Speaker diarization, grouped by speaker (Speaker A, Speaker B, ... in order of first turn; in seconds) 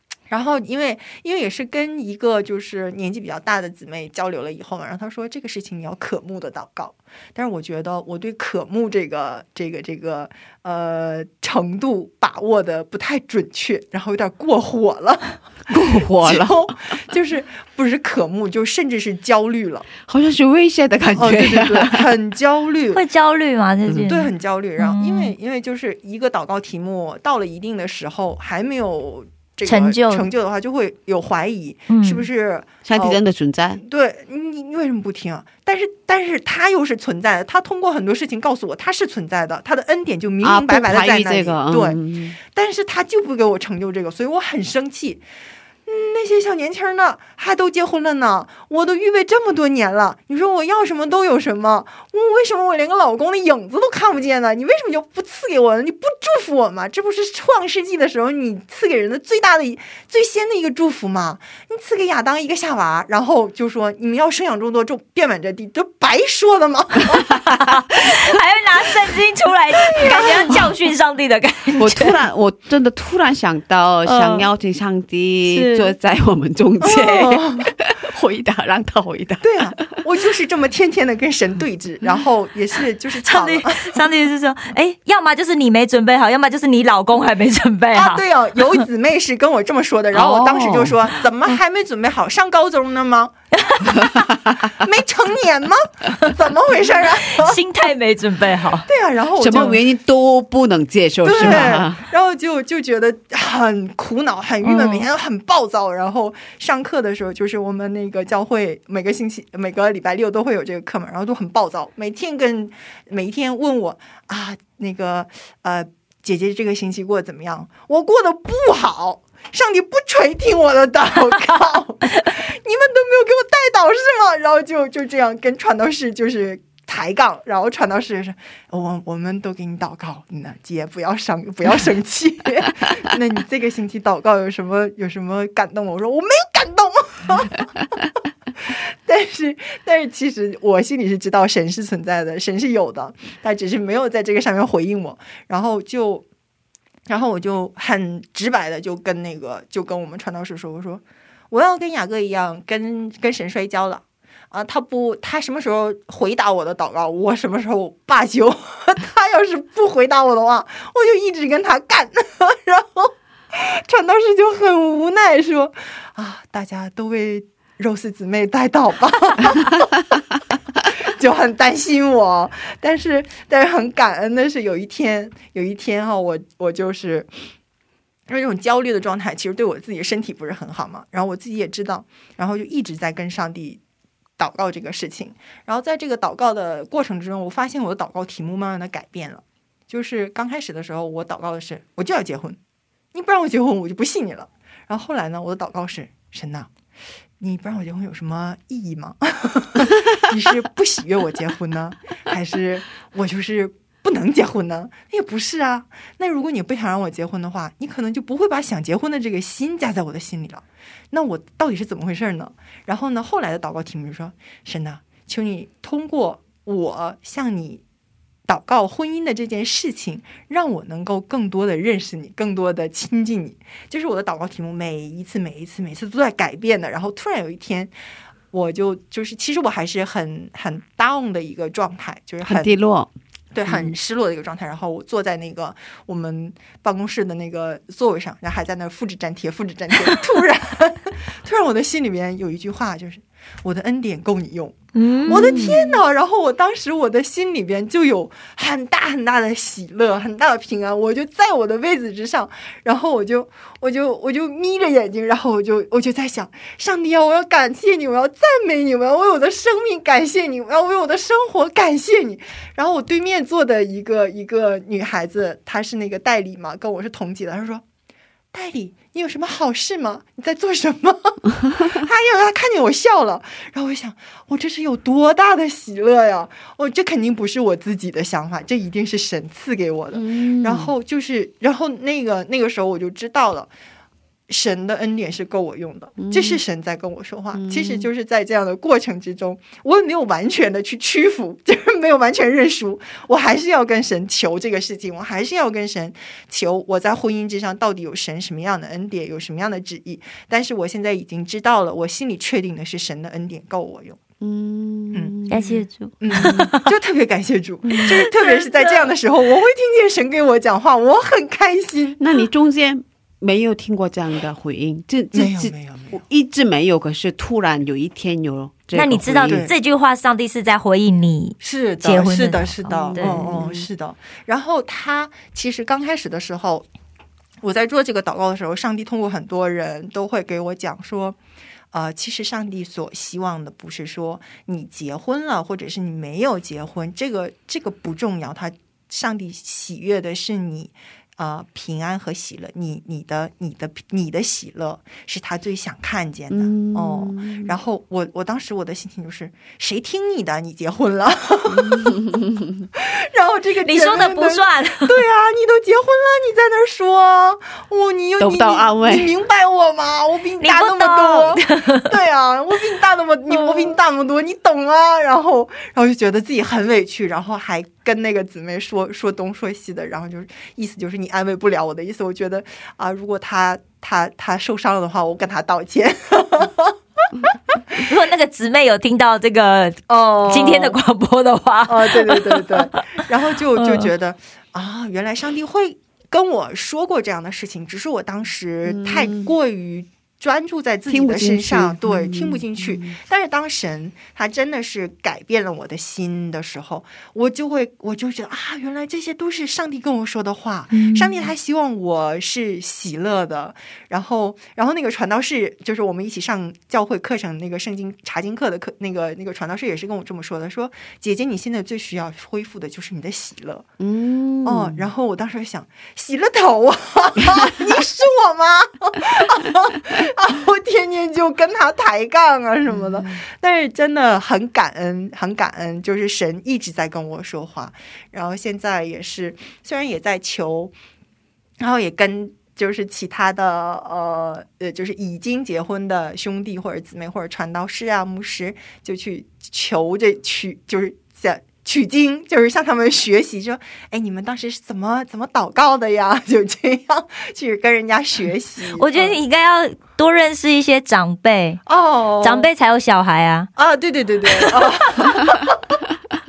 Speaker A: 0.3-15.4, 16.2-19.9, 21.1-23.0, 24.1-33.2, 33.8-45.2, 45.9-68.3, 70.0-70.6, 76.9-77.7, 79.4-84.0, 87.9-93.3, 93.9-97.6, 98.9-99.8, 101.2-138.0, 138.6-146.2, 147.1-169.9, 170.8-177.4, 178.3-183.8, 184.4-192.6, 193.1-196.7, 197.4-217.8, 218.5-227.9, 228.5-232.8, 233.5-267.8, 268.5-283.7, 284.5-304.2, 305.1-305.5, 306.2-312.2, 315.3-316.2, 319.0-319.7, 321.6-326.9, 327.6-331.4, 331.9-352.4, 352.9-376.9, 380.1-381.0, 381.9-413.9, 414.6-430.9, 431.8-449.4, 451.9-452.7, 453.8-455.8
Speaker B: 15.7-16.9, 20.0-22.1, 23.9-24.1, 32.8-33.8, 40.4-42.4, 71.8-80.0, 90.1-91.5, 94.0-94.7, 99.4-102.0, 232.4-233.1, 233.6-233.9, 245.3-245.8, 280.1-280.9, 286.2-286.6, 287.5-288.1, 304.4-305.6, 306.3-306.7, 307.9-308.2, 312.2-319.7, 322.9-323.9, 346.5-347.7, 351.7-352.9, 358.4-359.4, 388.8-389.5, 391.1-393.2, 414.0-415.1, 417.5-417.7, 422.9-423.4
Speaker C: 22.9-25.3, 29.6-30.3, 31.9-32.3, 67.5-72.2, 74.0-74.5, 75.5-75.9, 76.8-77.3, 83.2-88.8, 93.7-94.0, 97.3-98.9, 104.6-105.1, 244.9-245.8, 305.5-306.9, 308.1-309.0, 318.9-323.6, 353.8-355.2, 360.6-362.1, 363.5-363.9, 377.9-383.2, 383.8-384.1, 400.9-401.5, 448.9-451.8, 452.4-453.7